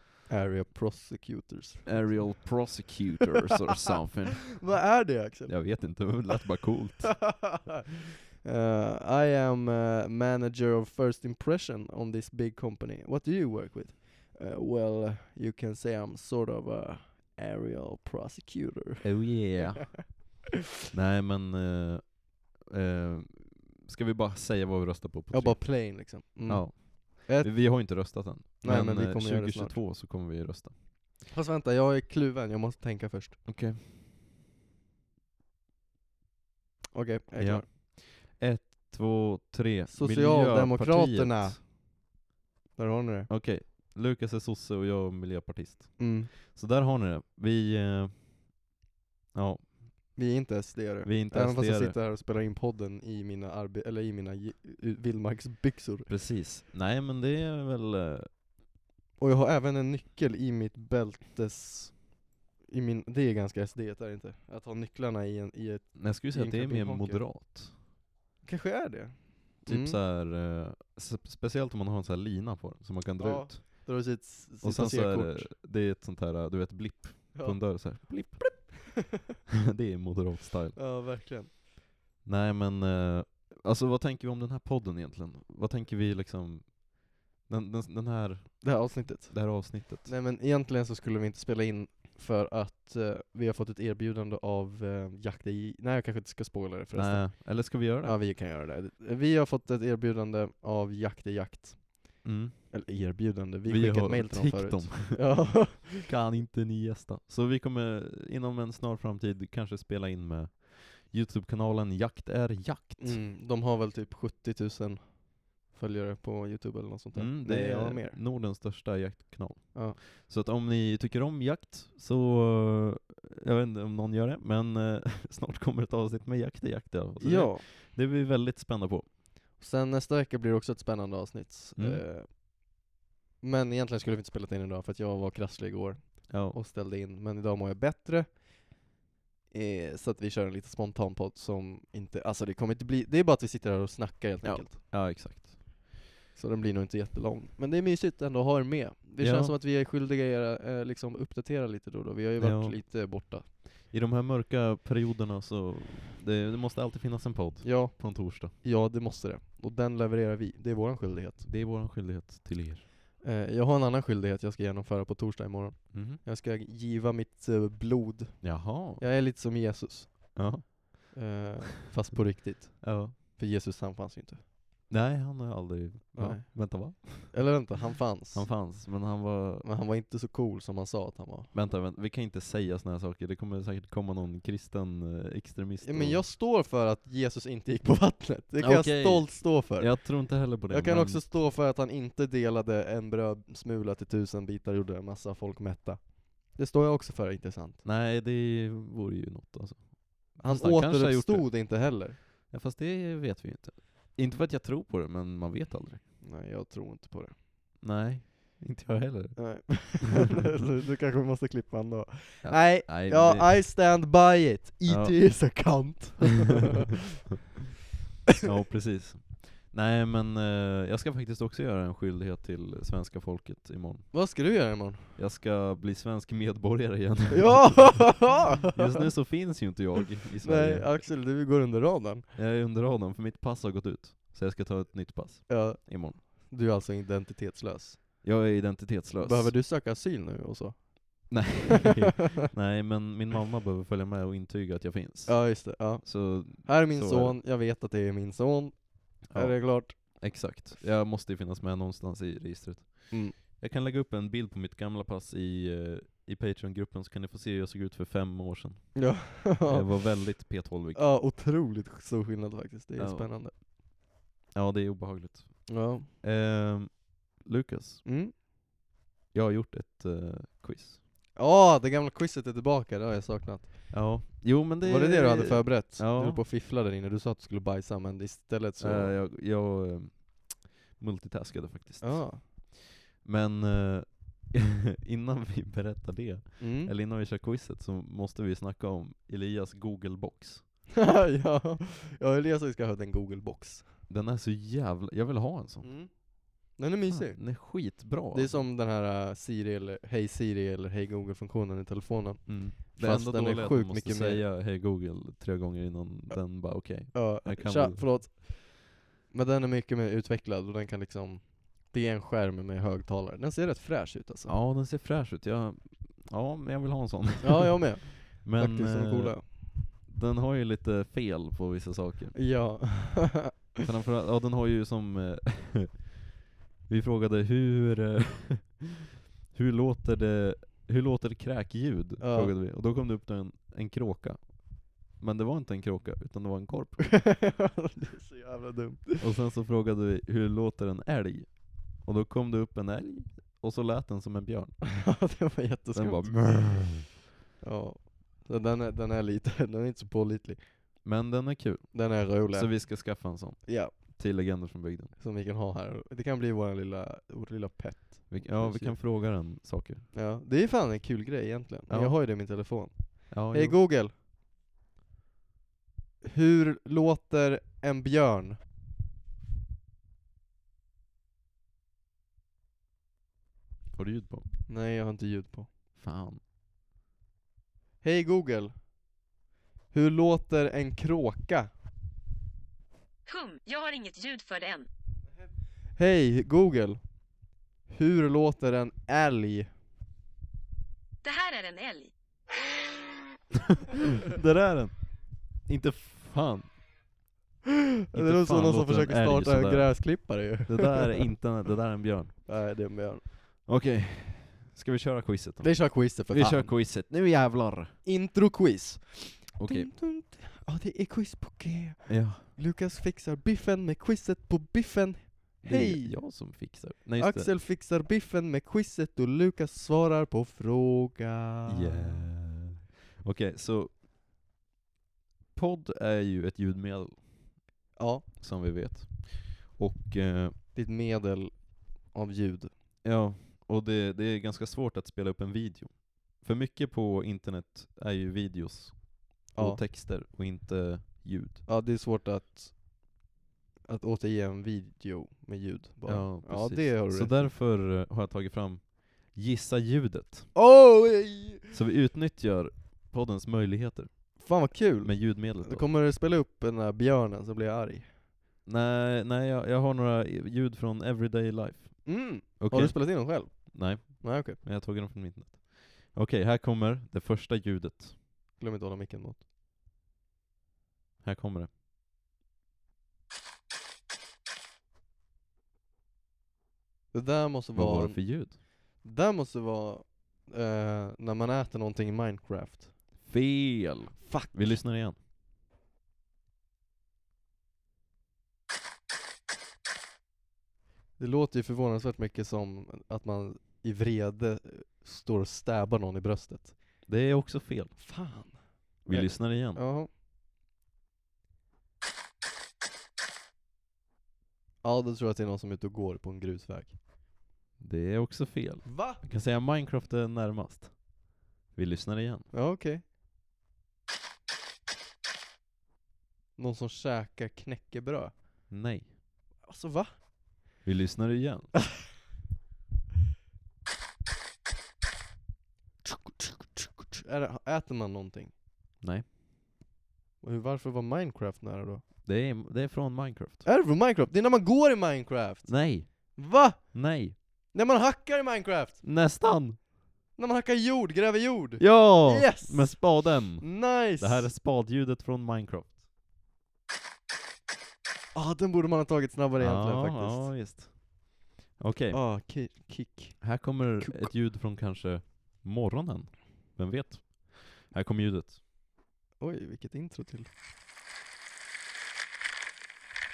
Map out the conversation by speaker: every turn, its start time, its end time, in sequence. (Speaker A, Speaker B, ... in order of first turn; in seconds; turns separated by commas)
Speaker A: 0.3-3.0, Speaker B: 1.9-4.6, Speaker A: 4.5-6.2, Speaker B: 5.5-7.4, Speaker A: 7.1-20.3, Speaker B: 19.0-20.4, Speaker B: 20.9-30.8, Speaker A: 25.3-29.8, Speaker A: 31.3-33.4, Speaker B: 33.5-34.0, Speaker A: 36.9-37.7, Speaker B: 37.4-41.6, Speaker A: 39.9-41.7, Speaker A: 42.8-43.3, Speaker B: 43.3-48.6, Speaker A: 46.0-46.3, Speaker B: 49.3-50.1, Speaker A: 50.1-56.1, Speaker B: 51.0-52.0, Speaker B: 56.1-58.4, Speaker A: 59.2-67.2, Speaker B: 66.0-67.8, Speaker A: 68.4-70.0, Speaker B: 69.7-73.9, Speaker A: 73.2-75.5, Speaker B: 74.6-78.9, Speaker A: 77.3-78.0, Speaker B: 79.6-80.8, Speaker A: 80.8-81.5, Speaker B: 82.2-90.1, Speaker A: 88.6-106.1, Speaker B: 96.9-98.2, Speaker B: 102.2-102.8, Speaker B: 103.7-113.2, Speaker A: 113.0-118.2, Speaker B: 117.2-129.1, Speaker A: 127.2-127.7, Speaker A: 129.6-132.8, Speaker B: 131.8-132.0, Speaker A: 133.4-138.8, Speaker B: 136.3-136.6, Speaker A: 139.5-144.9, Speaker B: 144.4-145.7, Speaker A: 146.3-153.5, Speaker B: 149.2-149.6, Speaker B: 152.4-152.8, Speaker B: 153.5-158.5, Speaker A: 157.6-161.5, Speaker B: 161.4-162.8, Speaker A: 163.2-174.4, Speaker B: 165.9-166.2, Speaker B: 168.4-169.1, Speaker B: 170.3-171.2, Speaker B: 172.8-173.2, Speaker B: 174.9-177.6, Speaker A: 176.2-178.5, Speaker B: 178.3-179.7, Speaker A: 179.6-181.5, Speaker B: 181.5-186.2, Speaker A: 185.8-197.8, Speaker B: 188.6-191.2, Speaker B: 197.8-201.7, Speaker A: 200.4-202.2, Speaker B: 202.5-206.0, Speaker A: 206.2-207.4, Speaker B: 207.8-210.0, Speaker A: 209.4-217.0, Speaker B: 212.4-213.6, Speaker B: 214.9-215.8, Speaker B: 218.4-224.2, Speaker A: 224.1-225.2, Speaker B: 225.2-231.0, Speaker A: 227.3-229.1, Speaker A: 230.4-232.3, Speaker B: 232.3-236.2, Speaker A: 235.5-238.2, Speaker B: 238.2-239.6, Speaker A: 239.2-241.9, Speaker B: 241.3-247.4, Speaker A: 245.3-250.6, Speaker B: 249.3-261.1, Speaker A: 253.1-253.4, Speaker A: 258.9-263.5, Speaker B: 263.0-263.7, Speaker B: 264.5-268.0, Speaker A: 265.7-266.1, Speaker A: 268.1-268.3, Speaker B: 269.3-271.0, Speaker A: 271.4-274.3, Speaker B: 273.9-276.4, Speaker A: 274.8-279.2, Speaker B: 278.8-290.7, Speaker A: 282.0-282.4, Speaker A: 286.6-286.9, Speaker A: 291.0-293.9, Speaker B: 294.1-295.9, Speaker A: 295.8-304.4, Speaker B: 297.1-298.7, Speaker B: 302.5-308.2, Speaker A: 307.1-314.6, Speaker B: 314.5-322.4, Speaker A: 317.4-319.5, Speaker A: 322.4-323.7, Speaker B: 323.8-326.2, Speaker B: 326.9-329.0, Speaker B: 329.5-337.1, Speaker A: 332.2-332.5, Speaker A: 337.0-339.3, Speaker B: 339.2-345.0, Speaker A: 345.0-347.0, Speaker B: 345.9-347.1, Speaker A: 347.6-350.8, Speaker B: 351.0-355.1, Speaker A: 351.9-354.2, Speaker A: 355.2-359.0, Speaker B: 358.3-360.1, Speaker A: 360.1-364.1, Speaker B: 361.9-362.2, Speaker B: 363.3-363.8, Speaker A: 366.2-368.6, Speaker B: 373.9-374.5, Speaker A: 374.7-375.7, Speaker B: 376.0-376.4, Speaker A: 378.0-378.9, Speaker A: 379.9-381.7, Speaker C: 383.3-384.9, Speaker A: 385.9-389.7, Speaker C: 391.2-392.1, Speaker B: 394.2-396.8, Speaker A: 398.1-401.2, Speaker B: 398.1-402.4, Speaker A: 402.4-403.3, Speaker B: 403.6-408.0, Speaker A: 405.6-406.7, Speaker A: 408.0-422.3, Speaker B: 409.6-409.9, Speaker B: 412.1-412.5, Speaker B: 415.6-417.5, Speaker B: 421.7-424.0, Speaker B: 425.5-427.6, Speaker A: 428.0-428.3, Speaker B: 428.4-430.6, Speaker A: 430.7-432.7, Speaker B: 433.0-441.6, Speaker A: 439.5-439.8, Speaker A: 441.7-443.0, Speaker A: 443.9-447.5, Speaker B: 446.1-450.5, Speaker A: 450.6-451.8, Speaker B: 451.7-455.9, Speaker A: 454.4-458.1, Speaker B: 458.6-468.2, Speaker A: 462.1-464.6, Speaker A: 468.6-469.4, Speaker B: 471.2-471.7, Speaker A: 477.1-482.9, Speaker B: 477.7-478.6, Speaker B: 483.2-485.2, Speaker A: 484.2-484.8, Speaker A: 491.2-497.0, Speaker B: 497.1-498.1, Speaker A: 498.0-500.1, Speaker B: 499.1-499.8, Speaker A: 504.8-507.0, Speaker B: 507.8-512.5, Speaker A: 508.8-509.2, Speaker A: 512.5-513.0, Speaker A: 516.6-518.7, Speaker B: 518.7-519.1, Speaker A: 519.6-520.2, Speaker B: 520.8-521.8, Speaker A: 526.8-528.5, Speaker B: 529.0-529.3, Speaker A: 530.4-532.0, Speaker B: 532.2-533.6, Speaker A: 533.6-539.0, Speaker B: 535.7-537.4, Speaker B: 539.0-539.8, Speaker A: 540.4-544.5, Speaker B: 541.8-546.0, Speaker A: 548.3-550.5, Speaker B: 549.6-552.3, Speaker A: 552.1-554.3, Speaker B: 553.4-558.6, Speaker A: 559.4-560.5